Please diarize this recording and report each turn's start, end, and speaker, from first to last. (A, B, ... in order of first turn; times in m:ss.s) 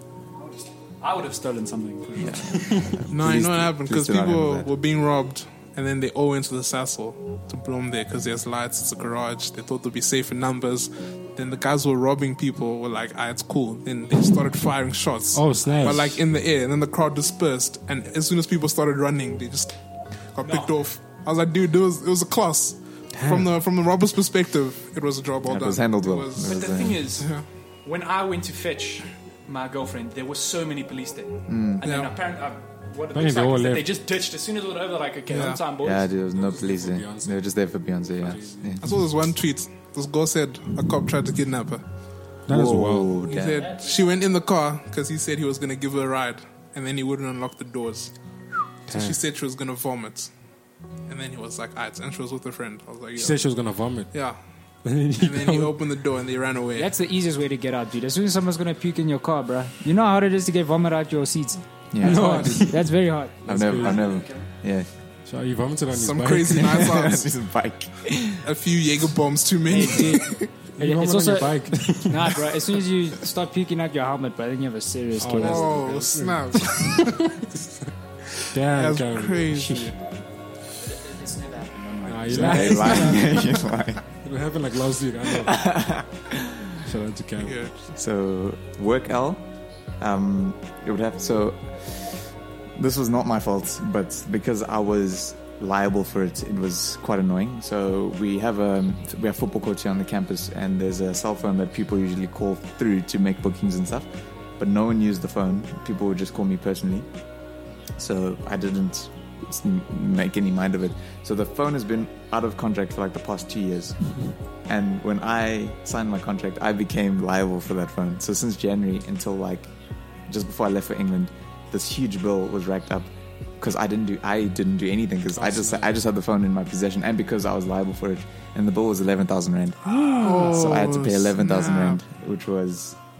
0:00.4-0:02.8 A
0:02.2-0:04.7 B
0:02.5-0:03.0 C
0:03.1-0:27.4 D
0:15.3-0:16.2 C
0:15.6-0:16.0 A
0:20.4-0:20.8 A
0:23.1-0:23.5 C
0:25.4-0:27.2 B
0:26.4-0:36.1 A
0:31.5-0:31.8 B
0:31.8-0:32.2 D
0:33.1-0:33.9 C
0:35.3-0:35.6 D
0:35.8-0:38.8 B
0:36.1-0:39.0 C
0:38.8-0:42.4 D
0:42.4-0:43.2 C
0:42.5-0:43.7 B
0:43.2-0:48.2 D
0:48.9-0:49.2 C
0:48.9-0:50.4 D
0:51.0-0:56.9 D
0:53.1-0:55.8 C
0:56.7-1:03.9 E
1:01.9-1:02.9 B
1:02.0-1:04.2 C
1:03.4-1:04.9 B
1:03.7-1:04.5 A
1:05.2-1:06.9 C
1:05.9-1:07.3 D
1:06.7-1:08.4 B
1:08.4-1:10.4 D
1:09.7-1:15.9 E
1:10.8-1:12.3 C
1:15.2-1:17.1 C
1:15.4-1:17.2 D
1:18.5-1:20.0 C
1:18.6-1:20.0 D
1:20.8-1:23.2 E
1:22.0-1:23.5 C
1:22.3-1:24.1 B
1:24.2-1:25.6 C
1:25.3-1:26.7 B
1:26.8-1:27.6 C
1:27.4-1:27.9 D
1:27.8-1:47.3 B
1:47.9-2:13.0 B
2:05.3-2:06.0 C
2:10.0-2:12.0 D